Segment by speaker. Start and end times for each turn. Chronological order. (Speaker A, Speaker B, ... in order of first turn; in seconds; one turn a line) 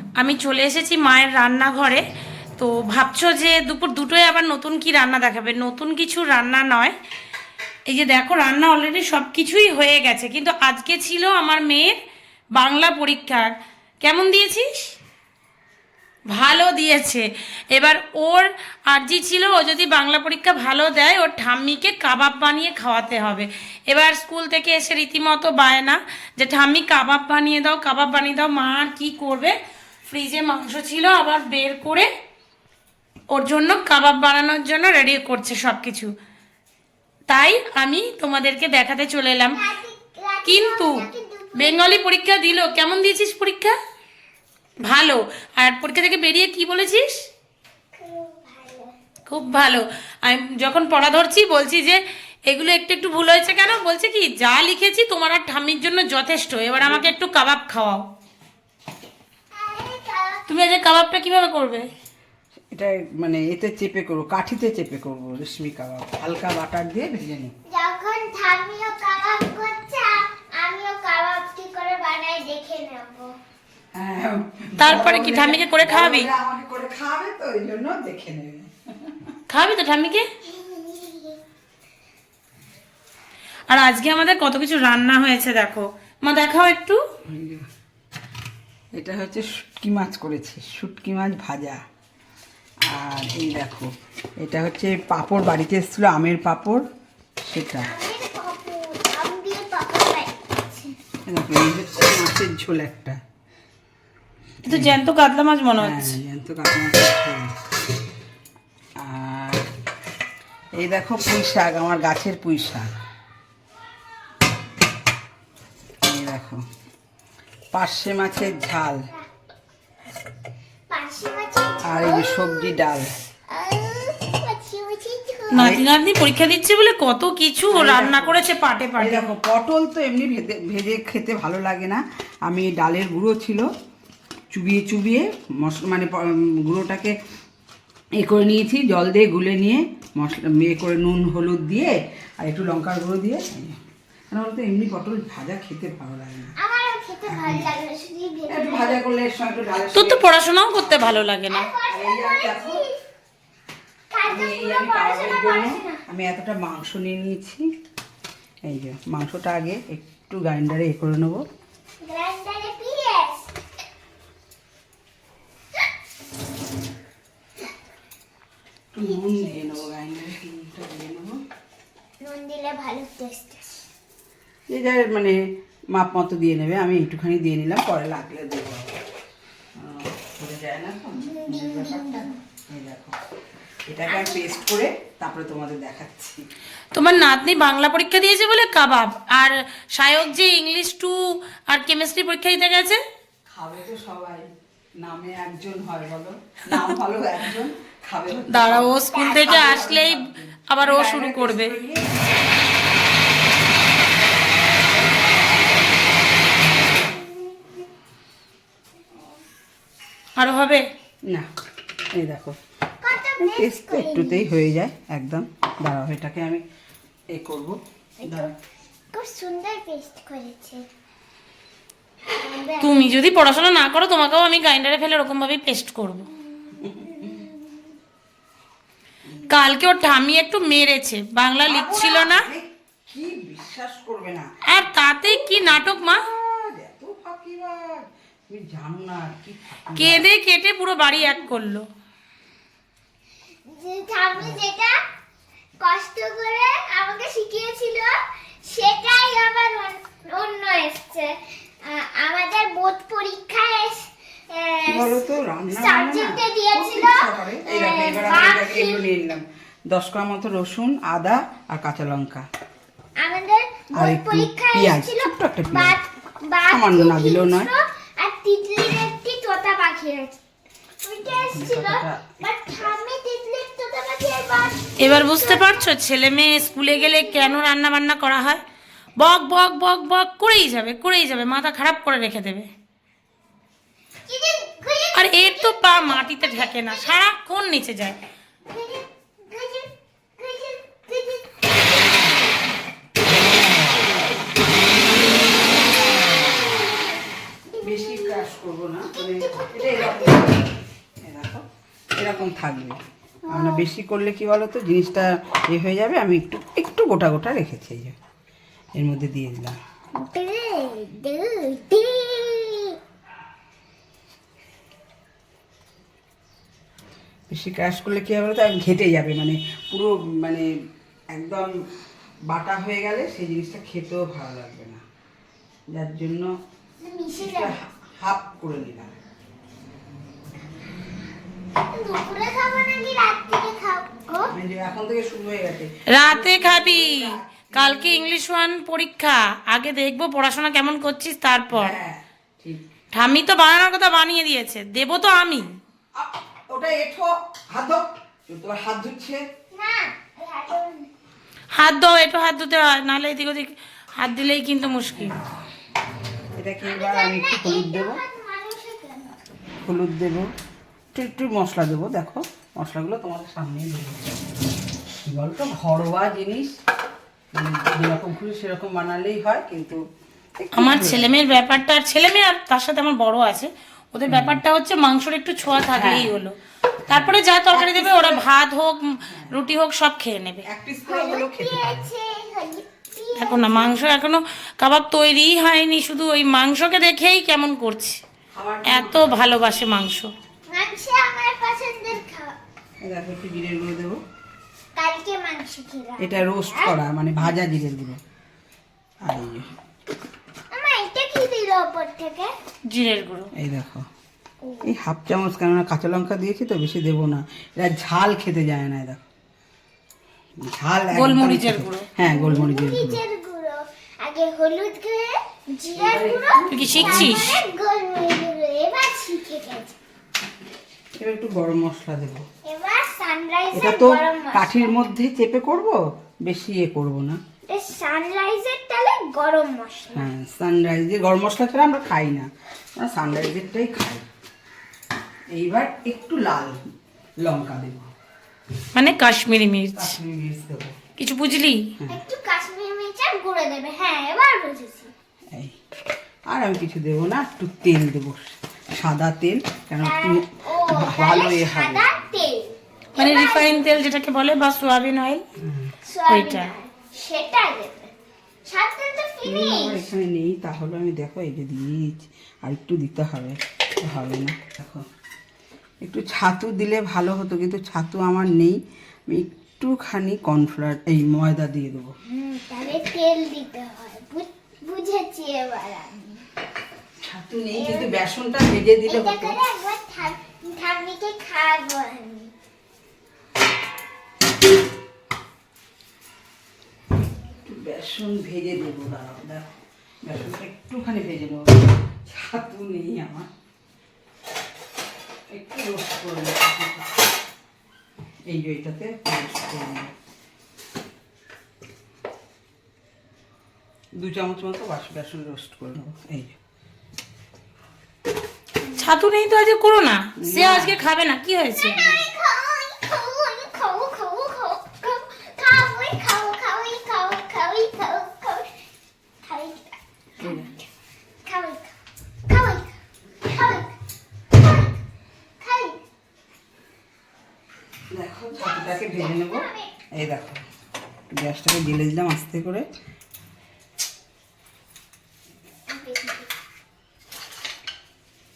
Speaker A: 0.2-2.0
Speaker A: 2.6-6.9
Speaker A: 7.9-12.0
Speaker A: 12.6-14.9
Speaker A: 16.3-32.1
Speaker A: 33.3-36.1
Speaker A: 37.3-39.7
Speaker B: 39.5-42.0
Speaker A: 40.5-43.8
Speaker A: 44.8-47.2
Speaker B: 48.0-48.9
Speaker A: 49.3-58.0
Speaker C: 56.8-57.1
Speaker B: 59.5-60.5
Speaker A: 60.5-61.9
Speaker C: 62.7-67.5
Speaker B: 67.7-73.4
Speaker C: 73.9-79.3
Speaker A: 74.8-76.3
Speaker A: 79.5-80.3
Speaker B: 80.4-81.4
Speaker A: 83.7-87.0
Speaker C: 87.3-87.7
Speaker C: 89.0-91.8
Speaker C: 92.9-96.8
Speaker C: 97.4-97.9
Speaker B: 97.8-101.0
Speaker C: 101.3-103.2
Speaker A: 104.7-106.2
Speaker C: 104.7-105.0
Speaker C: 105.8-107.6
Speaker C: 109.0-109.7
Speaker C: 110.8-113.0
Speaker C: 116.0-116.6
Speaker C: 117.7-119.1
Speaker B: 120.9-122.8
Speaker C: 121.8-123.2
Speaker B: 123.5-125.7
Speaker A: 125.5-129.3
Speaker C: 125.5-125.8
Speaker C: 127.7-128.4
Speaker C: 129.0-133.7
Speaker C: 134.5-137.2
Speaker C: 138.2-143.8
Speaker C: 144.3-146.6
Speaker B: 146.6-149.0
Speaker C: 147.3-147.7
Speaker C: 148.5-150.3
Speaker A: 149.9-151.7
Speaker B: 151.4-153.0
Speaker C: 151.9-152.8
Speaker B: 154.1-156.0
Speaker C: 154.3-157.7
Speaker C: 158.7-161.4
Speaker B: 162.0-163.6
Speaker C: 168.9-171.4
Speaker B: 169.0-169.9
Speaker B: 172.2-173.8
Speaker C: 174.7-175.4
Speaker C: 175.9-179.0
Speaker C: 179.8-183.2
Speaker B: 181.3-182.3
Speaker C: 183.9-186.4
Speaker B: 184.1-184.7
Speaker A: 186.9-193.0
Speaker C: 193.5-194.5
Speaker C: 195.0-202.1
Speaker A: 198.5-201.8
Speaker A: 210.4-210.8
Speaker C: 212.1-212.6
Speaker B: 213.0-214.5
Speaker C: 213.4-216.6
Speaker C: 217.3-218.5
Speaker B: 218.2-218.5
Speaker B: 219.1-220.9
Speaker B: 222.3-223.1
Speaker A: 222.8-226.3
Speaker B: 226.6-227.9
Speaker C: 226.8-227.4
Speaker A: 229.5-232.5
Speaker C: 231.7-240.3
Speaker A: 234.7-236.2
Speaker A: 240.0-241.9
Speaker C: 241.2-241.5
Speaker B: 243.7-245.0
Speaker C: 244.3-244.6
Speaker B: 245.8-259.1
Speaker C: 254.9-262.5
Speaker B: 263.2-270.4
Speaker C: 263.9-266.0
Speaker C: 266.7-267.7
Speaker B: 271.0-275.9
Speaker C: 271.2-273.0
Speaker A: 275.0-278.6
Speaker B: 276.6-277.6
Speaker A: 279.2-282.7
Speaker B: 284.3-287.3
Speaker A: 285.1-288.2
Speaker B: 288.7-291.7
Speaker C: 293.5-293.9
Speaker C: 296.2-296.6
Speaker B: 296.6-297.1
Speaker B: 297.7-298.5
Speaker C: 297.8-308.2
Speaker B: 299.1-300.7
Speaker B: 303.5-303.9
Speaker C: 308.9-309.8
Speaker B: 310.2-313.0
Speaker C: 317.5-320.7
Speaker C: 321.3-321.7
Speaker C: 322.5-325.0
Speaker C: 325.9-326.5
Speaker B: 327.0-327.8
Speaker C: 327.4-329.1
Speaker B: 331.9-334.5
Speaker C: 334.5-338.3
Speaker A: 336.1-342.0
Speaker C: 341.7-342.9
Speaker A: 343.1-345.7
Speaker C: 346.2-349.4
Speaker B: 349.7-351.1
Speaker A: 351.7-355.4
Speaker C: 355.1-355.4
Speaker C: 356.6-358.2
Speaker B: 356.8-359.4
Speaker C: 359.8-360.5
Speaker C: 361.1-364.4
Speaker C: 365.2-366.7
Speaker C: 367.5-370.0
Speaker C: 370.6-371.4
Speaker A: 370.8-376.6
Speaker C: 374.3-374.6
Speaker C: 375.9-376.4
Speaker C: 377.1-378.5
Speaker A: 377.1-380.6
Speaker C: 379.2-379.6
Speaker C: 380.7-382.1
Speaker B: 381.1-384.0
Speaker A: 383.4-388.2
Speaker C: 388.6-389.4
Speaker A: 388.9-390.3
Speaker B: 390.7-392.6
Speaker C: 393.0-394.2
Speaker B: 395.0-397.0
Speaker C: 396.2-398.2
Speaker C: 399.3-399.7
Speaker B: 400.7-402.5
Speaker A: 402.9-403.5
Speaker C: 403.6-404.1
Speaker B: 404.6-404.9
Speaker C: 404.8-409.2
Speaker C: 410.6-413.2
Speaker A: 411.1-412.1
Speaker B: 412.2-420.0
Speaker C: 415.9-417.5
Speaker A: 416.7-417.6
Speaker C: 421.2-422.4
Speaker B: 422.7-424.9
Speaker C: 423.7-427.4
Speaker B: 427.7-430.3
Speaker C: 430.1-434.3
Speaker C: 435.5-436.8
Speaker C: 437.4-438.1
Speaker A: 438.9-440.1
Speaker C: 439.9-441.0
Speaker A: 441.2-441.9
Speaker B: 442.1-445.1
Speaker C: 445.5-445.8
Speaker C: 446.5-452.1
Speaker B: 450.0-453.9
Speaker A: 453.2-455.4
Speaker C: 455.6-455.9
Speaker B: 456.1-458.1
Speaker A: 456.3-456.7
Speaker B: 458.7-460.1
Speaker C: 459.4-465.1
Speaker C: 466.0-472.1
Speaker B: 472.3-476.4
Speaker C: 477.2-479.6
Speaker B: 477.7-478.2
Speaker B: 479.1-482.5
Speaker C: 487.6-489.6
Speaker C: 490.2-493.5
Speaker C: 495.5-497.2
Speaker C: 498.5-500.1
Speaker C: 504.2-506.6
Speaker A: 509.0-512.0
Speaker C: 510.4-511.0
Speaker B: 511.8-518.7
Speaker C: 511.9-512.2
Speaker B: 519.4-520.9
Speaker C: 520.4-520.7
Speaker B: 521.5-522.0
Speaker B: 522.5-523.9
Speaker B: 524.5-525.0
Speaker B: 525.6-526.0
Speaker C: 528.1-529.7
Speaker B: 528.5-530.0
Speaker C: 530.2-530.6
Speaker C: 531.3-532.9
Speaker B: 535.9-536.5